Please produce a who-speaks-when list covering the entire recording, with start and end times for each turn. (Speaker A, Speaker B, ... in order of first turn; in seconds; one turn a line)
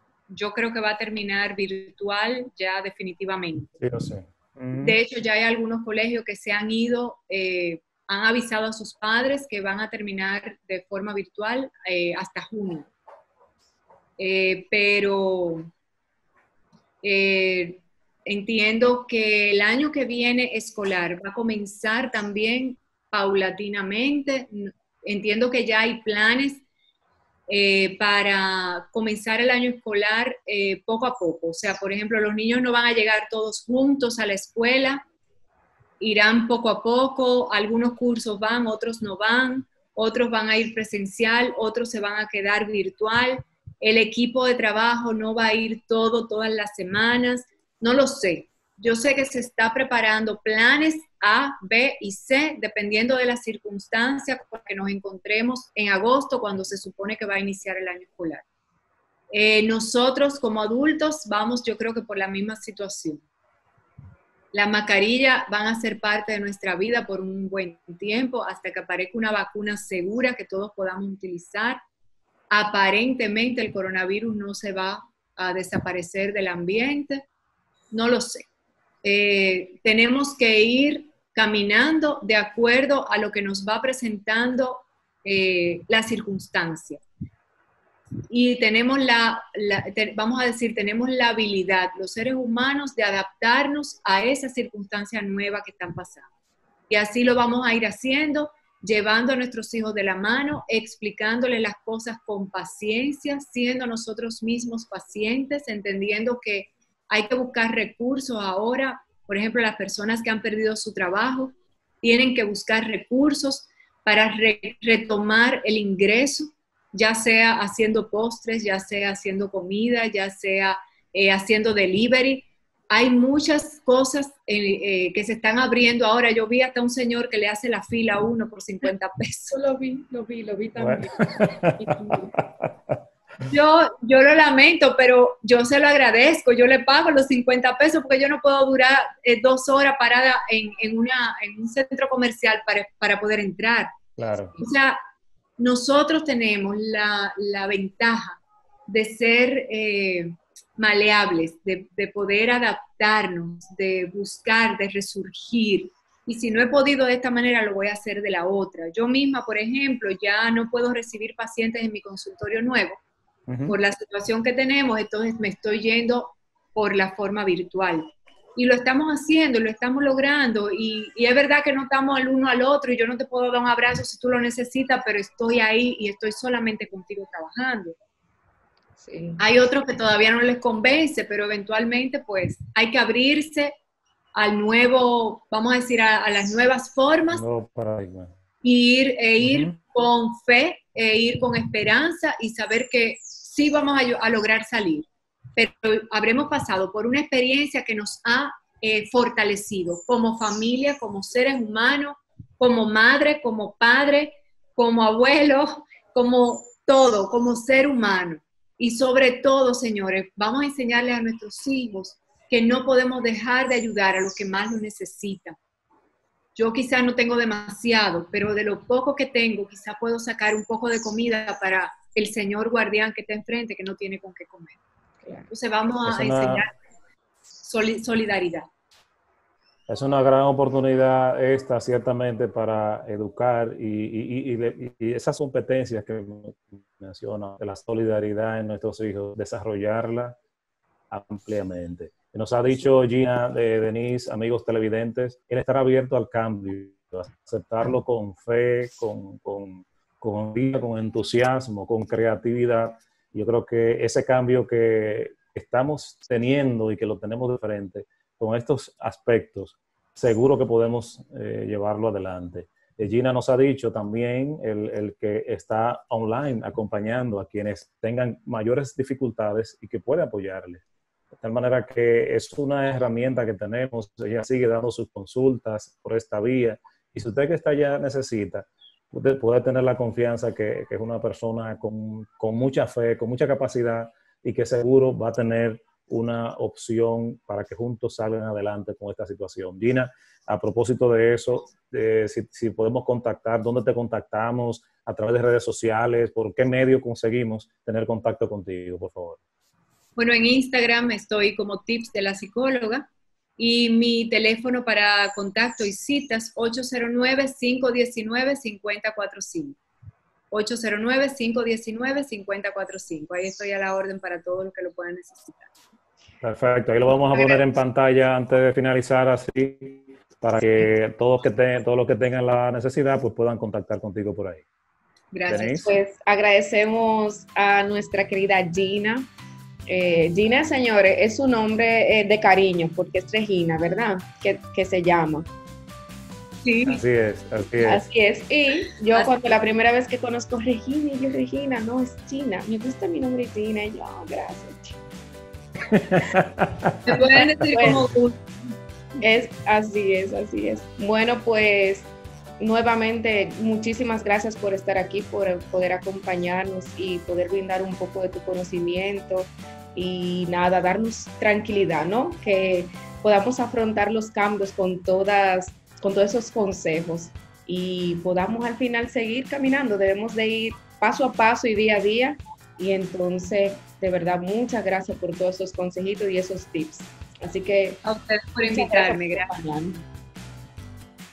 Speaker A: 0.3-3.8
Speaker B: 3.8-5.0
Speaker A: 4.8-12.9
Speaker A: 14.2-15.7
Speaker A: 17.0-26.6
Speaker A: 27.5-35.0
Speaker A: 36.0-58.5
Speaker A: 59.3-63.2
Speaker A: 64.5-71.8
Speaker A: 72.5-77.2
Speaker A: 77.9-78.5
Speaker A: 79.0-87.0
Speaker A: 88.3-96.3
Speaker A: 96.9-129.6
Speaker C: 129.5-132.3
Speaker B: 130.8-131.8
Speaker A: 133.5-143.9
Speaker B: 144.2-144.6
Speaker A: 144.6-145.0
Speaker A: 145.6-163.0
Speaker B: 163.5-163.8
Speaker A: 163.7-178.0
Speaker C: 179.0-179.4
Speaker A: 179.4-183.8
Speaker A: 184.3-187.4
Speaker B: 187.3-188.3
Speaker A: 188.6-215.6
Speaker B: 189.4-189.8
Speaker A: 216.6-224.8
Speaker C: 225.2-225.5
Speaker A: 225.5-226.7
Speaker B: 226.1-226.6
Speaker A: 227.6-228.7
Speaker B: 229.9-240.4
Speaker B: 241.1-270.8
Speaker B: 271.3-299.4
Speaker A: 300.2-309.8
Speaker A: 310.5-315.7
Speaker B: 316.4-324.6
Speaker A: 317.3-317.6
Speaker A: 325.3-326.0
Speaker B: 325.5-325.9
Speaker C: 325.9-329.3
Speaker C: 329.9-335.5
Speaker A: 336.6-337.0
Speaker B: 336.9-338.1
Speaker C: 337.8-345.0
Speaker B: 345.9-347.0
Speaker A: 347.1-348.4
Speaker C: 347.3-348.1
Speaker C: 349.2-378.0
Speaker A: 378.0-379.5
Speaker C: 378.6-380.0